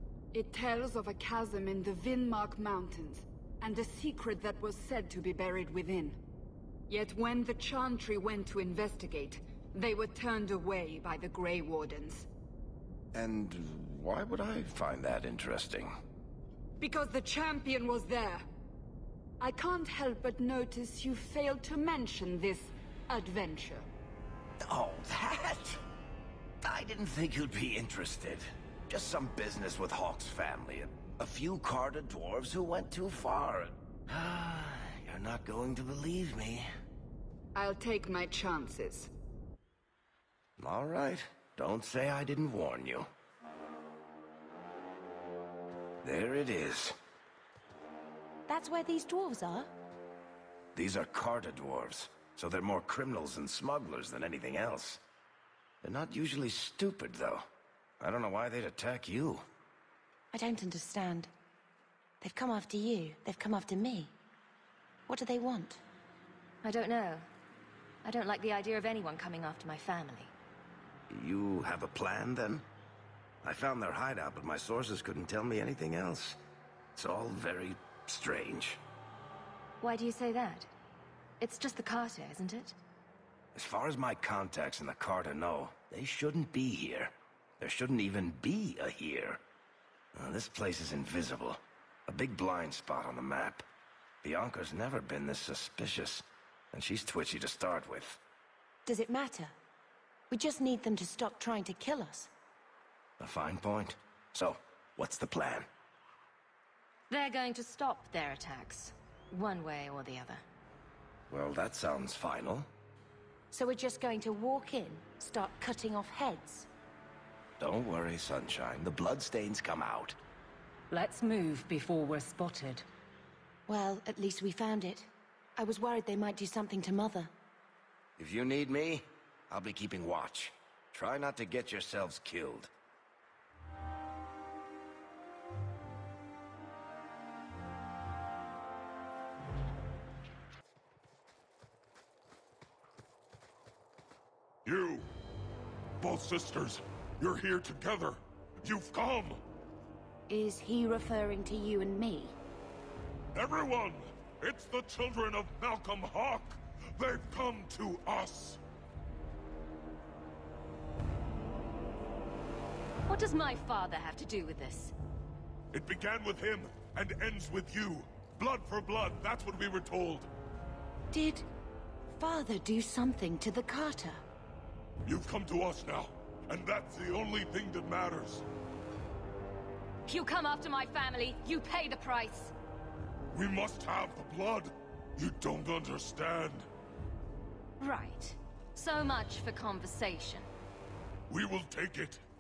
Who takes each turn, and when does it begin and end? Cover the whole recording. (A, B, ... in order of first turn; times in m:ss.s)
0:00.3-0:06.2 A
0:06.9-0:12.3 A
0:13.1-0:16.0 B
0:16.8-0:18.5 A
0:19.4-0:23.9 A
0:24.6-0:25.8 B
0:26.6-0:36.7 B
0:37.6-0:39.1 A
0:40.6-0:43.1 B
0:46.0-0:47.0 B
0:48.5-0:49.7 C
0:50.8-0:55.0 B
0:55.8-0:57.4 B
0:58.0-0:59.4 B
1:00.3-1:01.3 C
1:02.2-1:04.1 C
1:05.1-1:05.8 C
1:06.6-1:07.3 D
1:08.0-1:10.3 D
1:11.1-1:12.6 B
1:13.4-1:16.4 B
1:17.0-1:18.8 B
1:19.8-1:20.7 D
1:21.4-1:22.8 D
1:23.6-1:29.4 B
1:30.1-1:33.6 B
1:34.2-1:38.2 B
1:38.9-1:39.5 C
1:40.3-1:42.3 C
1:43.2-1:45.7 B
1:47.1-1:50.4 D
1:51.3-1:52.7 B
1:53.5-1:56.7 C
1:57.6-2:00.2 B
2:00.9-2:02.9 E
2:03.7-2:07.3 C
2:08.2-2:12.7 B
2:24.7-2:25.1 F
2:26.0-2:29.4 F
2:30.3-2:32.4 C
2:33.4-2:38.6 F
2:43.1-2:44.9 D
2:45.7-2:50.3 F
2:51.1-2:51.4 C
2:52.2-2:54.2 C
2:55.1-2:58.4 F
3:00.1-3:02.5 D
3:03.3-3:06.7 F
3:07.8-3:10.5 D
3:11.3-3:12.2 F